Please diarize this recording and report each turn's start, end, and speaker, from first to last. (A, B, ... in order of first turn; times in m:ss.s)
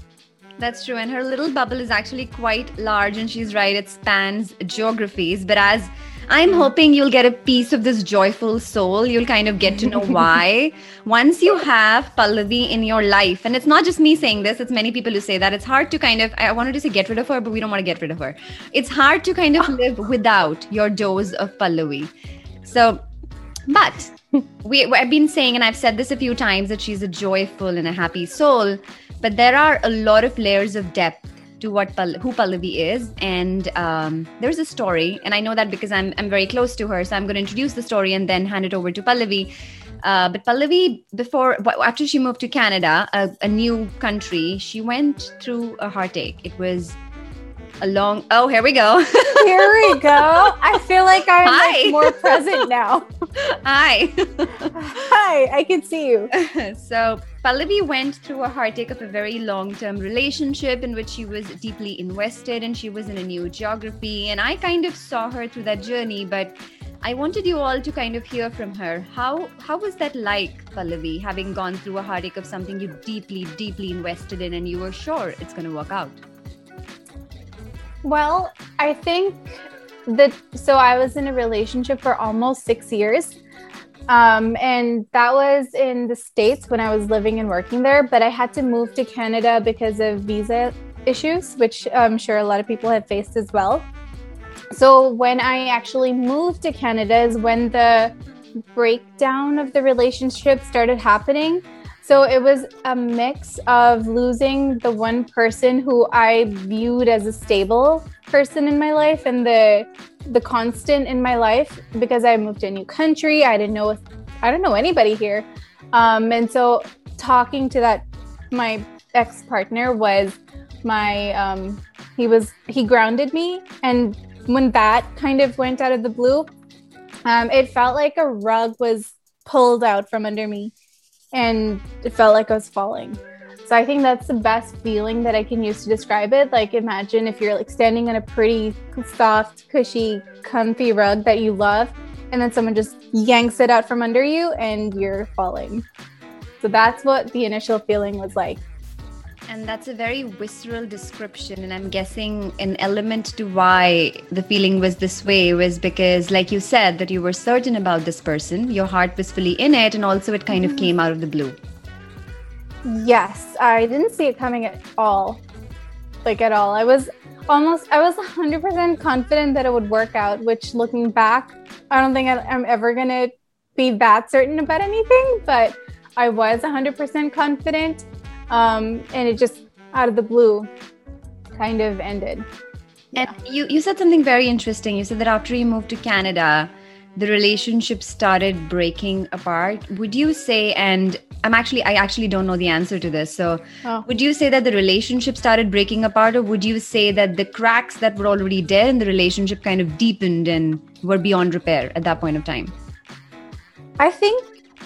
0:00.6-0:22.1 A
0:22.6-0:23.0 A
0:23.7-0:39.5 A
0:40.0-0:47.0 A
0:47.8-0:50.5 A
0:49.4-0:53.1 B
0:51.4-0:52.6 A
0:53.4-0:54.7 A
0:54.7-0:56.3 B
0:56.3-1:16.2 A
1:18.0-1:23.4 B
1:24.1-1:33.9 B
1:34.7-1:38.1 B
1:38.7-2:06.5 B
2:07.2-2:10.7 B
2:11.3-2:25.8 B
2:26.6-2:28.6 B
2:29.5-2:41.6 A
2:42.8-2:45.4 B
2:46.2-3:00.7 B
3:01.5-3:02.4 B
3:03.1-3:22.7 A
3:24.0-3:24.6 B